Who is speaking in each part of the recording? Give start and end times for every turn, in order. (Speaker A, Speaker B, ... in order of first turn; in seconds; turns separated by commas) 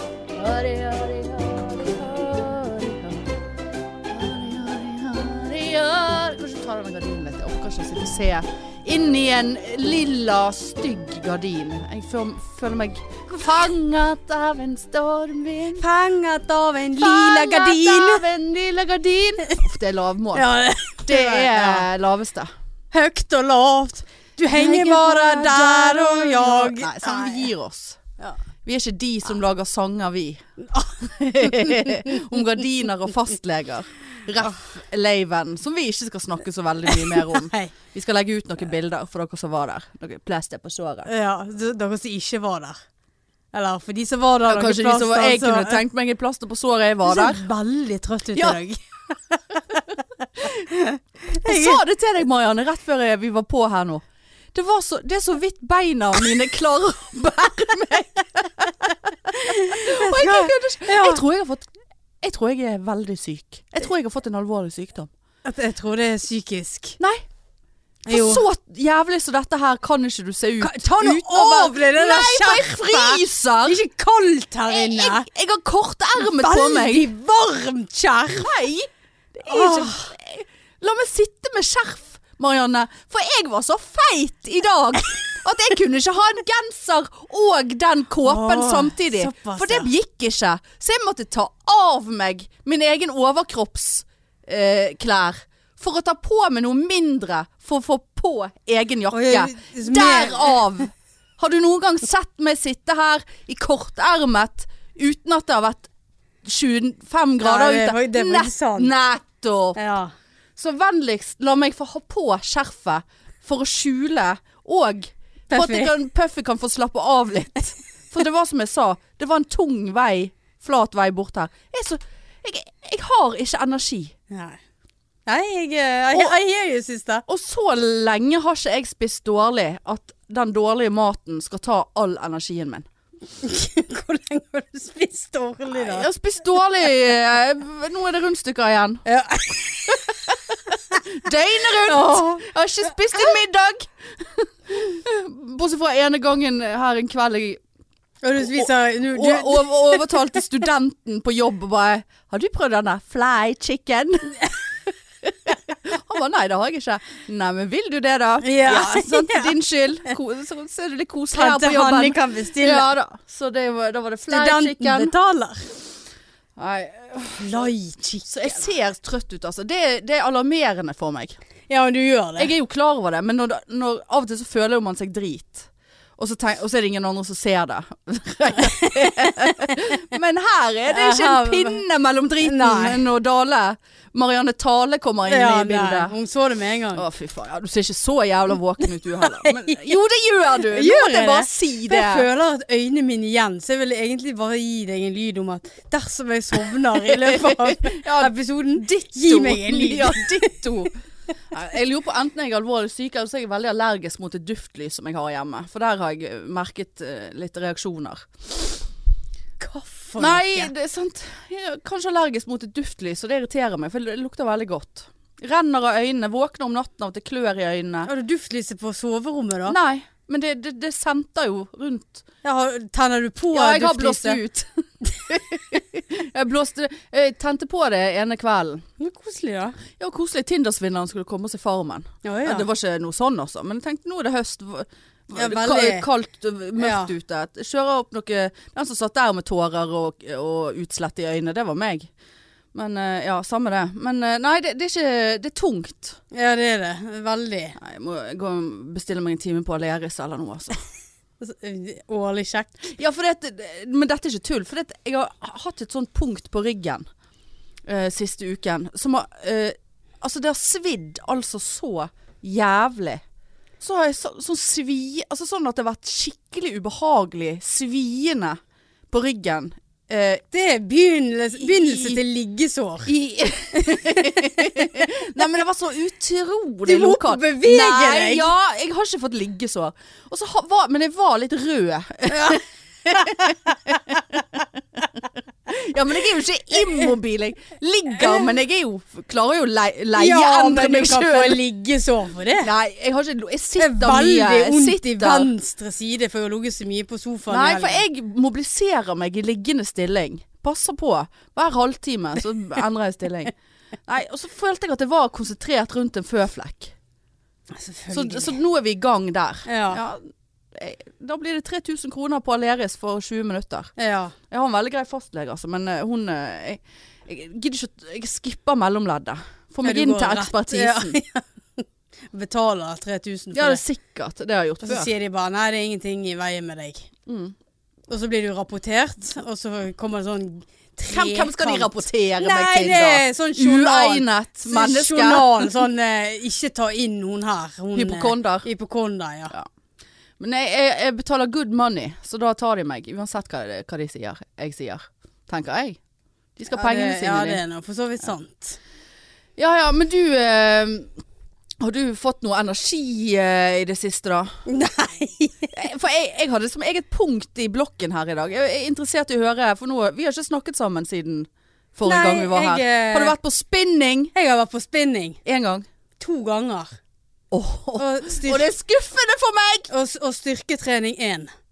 Speaker A: 0.3-3.3, Speaker A: 4.1-15.8, Speaker B: 15.8-18.3, Speaker A: 17.0-20.4, Speaker B: 20.3-21.9, Speaker A: 21.0-22.5, Speaker B: 22.9-27.5, Speaker A: 24.5-28.0, Speaker A: 28.6-30.4, Speaker B: 30.6-32.2, Speaker A: 31.0-41.1, Speaker B: 36.9-37.7, Speaker B: 41.1-42.8, Speaker B: 43.5-45.8, Speaker A: 44.5-47.4, Speaker B: 47.0-49.8, Speaker A: 48.4-48.6, Speaker B: 50.4-51.8, Speaker A: 51.3-54.0, Speaker A: 54.5-61.7, Speaker B: 59.4-61.2, Speaker A: 62.2-65.1, Speaker B: 65.5-67.0, Speaker A: 68.1-73.8, Speaker B: 68.1-68.4, Speaker B: 70.6-75.3, Speaker A: 74.7-77.1, Speaker B: 76.2-78.5, Speaker A: 78.3-105.9, Speaker B: 79.5-80.1, Speaker B: 88.2-89.9, Speaker B: 99.1-100.6, Speaker A: 106.4-109.8, Speaker B: 107.4-108.9, Speaker B: 109.8-110.1, Speaker A: 110.6-124.2, Speaker B: 115.5-115.9, Speaker B: 124.3-124.6, Speaker B: 125.3-127.2, Speaker A: 127.3-132.9, Speaker B: 133.4-136.1, Speaker A: 135.7-139.0, Speaker B: 139.1-140.3, Speaker A: 139.9-147.6, Speaker B: 141.8-142.4, Speaker B: 148.2-150.2, Speaker A: 148.5-154.5, Speaker A: 155.5-165.1, Speaker B: 158.4-159.5, Speaker B: 161.3-162.9, Speaker B: 164.3-165.7, Speaker A: 166.6-167.4, Speaker B: 167.4-168.6, Speaker A: 168.3-171.4, Speaker B: 171.7-172.5, Speaker A: 172.4-175.7, Speaker A: 176.2-186.1, Speaker B: 178.8-179.3, Speaker B: 180.9-181.8, Speaker B: 182.4-183.0, Speaker B: 185.3-187.1, Speaker A: 186.9-192.3, Speaker B: 189.2-189.9, Speaker B: 190.7-200.6, Speaker A: 197.0-201.0, Speaker A: 201.5-208.8, Speaker B: 209.6-210.7, Speaker A: 210.2-218.1, Speaker B: 218.1-219.8, Speaker A: 219.7-222.2, Speaker B: 222.4-224.4, Speaker A: 223.5-228.8, Speaker B: 229.0-229.8, Speaker A: 229.9-242.1, Speaker B: 232.2-232.7, Speaker B: 235.4-236.1, Speaker B: 236.8-237.1, Speaker A: 242.7-246.2, Speaker B: 246.3-247.8, Speaker A: 247.8-250.8, Speaker B: 251.4-252.7, Speaker A: 252.9-257.1, Speaker A: 257.9-263.2, Speaker A: 263.8-270.4, Speaker B: 270.5-273.1, Speaker A: 271.6-272.2, Speaker A: 273.1-285.0, Speaker B: 273.8-274.9, Speaker B: 276.9-278.5, Speaker B: 282.3-284.0, Speaker A: 285.7-291.6, Speaker B: 290.1-292.7, Speaker A: 292.6-295.5, Speaker B: 293.8-298.0, Speaker A: 297.5-303.5, Speaker A: 304.1-306.9, Speaker B: 307.7-308.6, Speaker A: 308.1-313.9, Speaker B: 309.7-310.0, Speaker B: 314.0-314.4, Speaker A: 314.5-321.1, Speaker B: 319.8-323.8, Speaker A: 323.5-325.1, Speaker B: 324.8-327.1, Speaker A: 327.3-327.6, Speaker B: 328.1-339.5, Speaker A: 331.1-335.7, Speaker A: 337.9-338.7, Speaker A: 340.4-346.0, Speaker A: 346.6-347.6, Speaker B: 346.7-348.8, Speaker A: 349.6-351.1, Speaker A: 351.8-354.5, Speaker B: 354.7-355.8, Speaker A: 355.7-364.3, Speaker B: 362.1-363.4, Speaker B: 364.3-365.4, Speaker A: 365.4-365.9, Speaker B: 366.2-366.9, Speaker A: 367.5-369.9, Speaker B: 368.0-368.7, Speaker B: 369.9-371.5